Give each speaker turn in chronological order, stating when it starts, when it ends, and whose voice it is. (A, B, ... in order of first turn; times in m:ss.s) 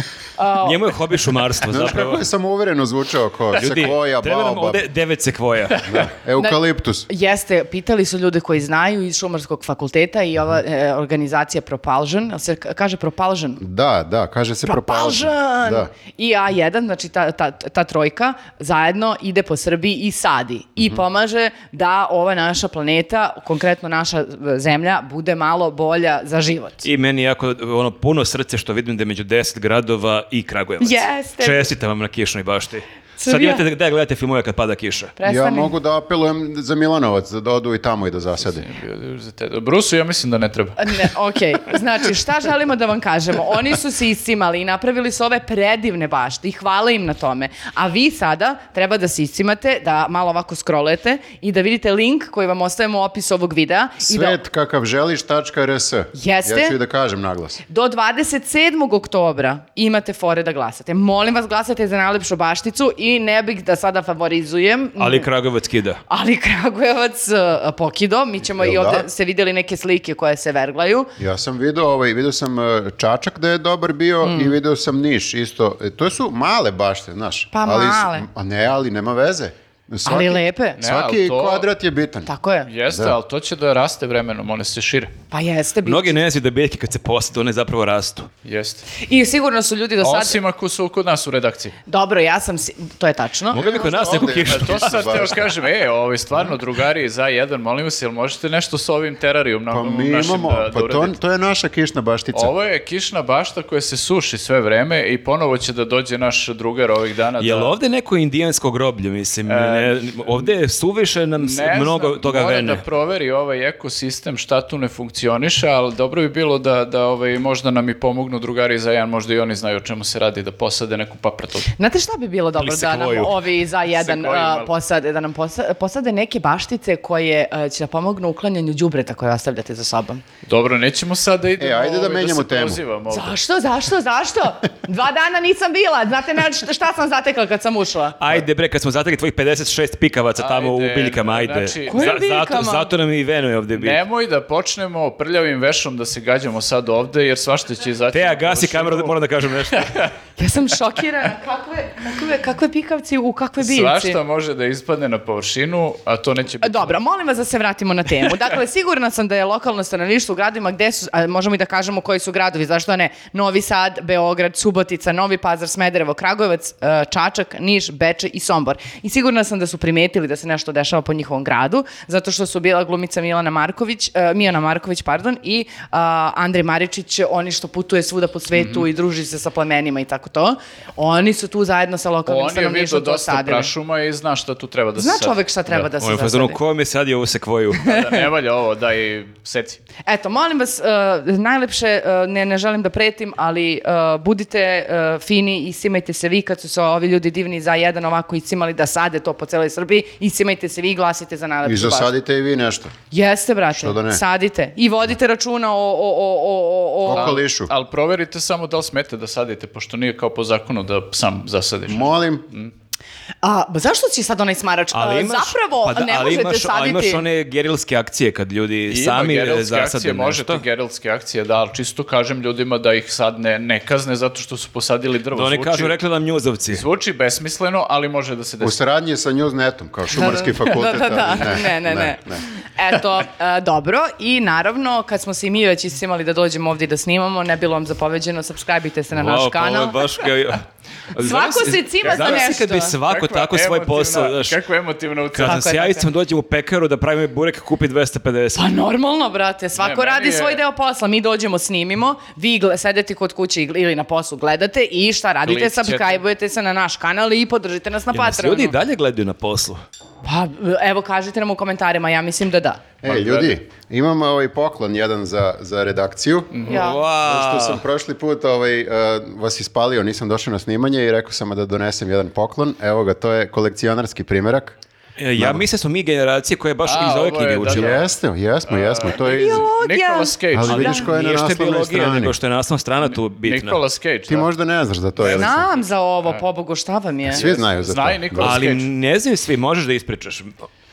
0:00.4-0:01.1 A
0:00.6-0:02.2 B
0:01.6-0:04.8 C
0:03.5-0:05.9 B
0:05.8-0:07.1 C
0:07.1-0:13.6 A
0:13.6-0:15.9 C
0:14.6-0:26.8 A
0:26.8-0:35.1 B
0:30.8-0:31.7 A
0:33.2-0:33.6 A
0:35.2-0:35.7 A
0:35.2-0:38.6 C
0:38.4-0:40.9 D
0:40.8-0:54.4 A
0:54.0-0:57.6 C
0:56.1-0:56.8 A
0:57.7-1:05.3 A
1:05.0-1:06.0 B
1:06.1-1:11.1 A
1:08.6-1:09.1 C
1:11.2-1:22.3 C
1:14.2-1:14.6 A
1:17.5-1:18.3 A
1:20.0-1:20.8 A
1:20.8-1:21.7 D
1:22.2-1:22.7 A
1:22.6-1:25.1 D
1:22.9-1:23.1 C
1:25.3-1:26.2 A
1:25.8-1:28.3 B
1:28.4-1:28.8 D
1:29.0-1:30.4 A
1:30.0-1:31.8 D
1:31.9-1:33.7 A
1:33.5-1:35.3 B
1:33.5-1:35.5 C
1:34.2-1:41.2 D
1:39.7-1:42.5 C
1:42.3-1:47.7 D
1:47.4-1:52.8 B
1:49.5-1:50.4 D
1:51.4-2:01.7 D
2:01.8-2:10.2 A
2:02.6-2:03.4 B
2:03.9-2:04.7 D
2:10.4-2:13.4 D
2:11.6-2:12.8 C
2:13.1-2:18.4 A
2:18.2-2:24.0 B
2:20.4-2:22.2 D
2:21.9-2:22.9 A
2:23.7-2:30.1 D
2:28.1-2:30.0 B
2:30.4-2:34.2 A
2:33.6-2:37.0 D
2:36.6-3:03.7 A
2:58.5-2:58.8 D
3:02.3-3:05.9 D
3:05.0-3:06.6 A
3:06.0-3:08.0 B
3:07.8-3:09.8 D
3:10.0-3:22.1 A
3:21.6-3:22.9 C
3:23.1-3:27.4 A
3:23.7-3:24.2 C
3:27.0-3:27.7 C
3:27.1-3:32.7 D
3:31.9-3:32.4 C
3:33.4-3:37.2 A
3:34.9-3:40.6 B
3:38.9-3:46.0 D
3:45.3-3:46.8 B
3:46.7-3:48.8 D
3:48.6-3:52.4 C
3:50.1-4:00.3 A
3:59.1-4:04.6 B
4:01.2-4:03.0 A
4:02.0-4:05.7 D
4:05.3-4:08.6 B
4:05.4-4:06.1 A
4:08.5-4:18.7 A
4:09.8-4:10.6 D
4:15.4-4:16.2 D
4:18.1-4:19.8 B
4:20.2-4:22.8 A
4:23.0-4:34.8 C
4:23.0-4:23.6 D
4:26.5-4:26.8 D
4:26.6-4:27.0 A
4:26.7-4:27.8 B
4:35.2-4:38.0 B
4:35.4-4:35.6 C
4:36.8-4:38.0 D
4:37.7-4:39.7 C
4:38.7-4:40.9 D
4:39.1-4:41.0 A
4:40.5-4:42.4 C
4:40.7-4:43.8 B
4:43.0-4:44.5 D
4:44.3-4:45.7 C
4:45.2-4:45.7 D
4:45.2-4:47.5 A
4:47.3-4:48.6 C
4:47.3-4:48.9 D
4:48.4-4:50.6 B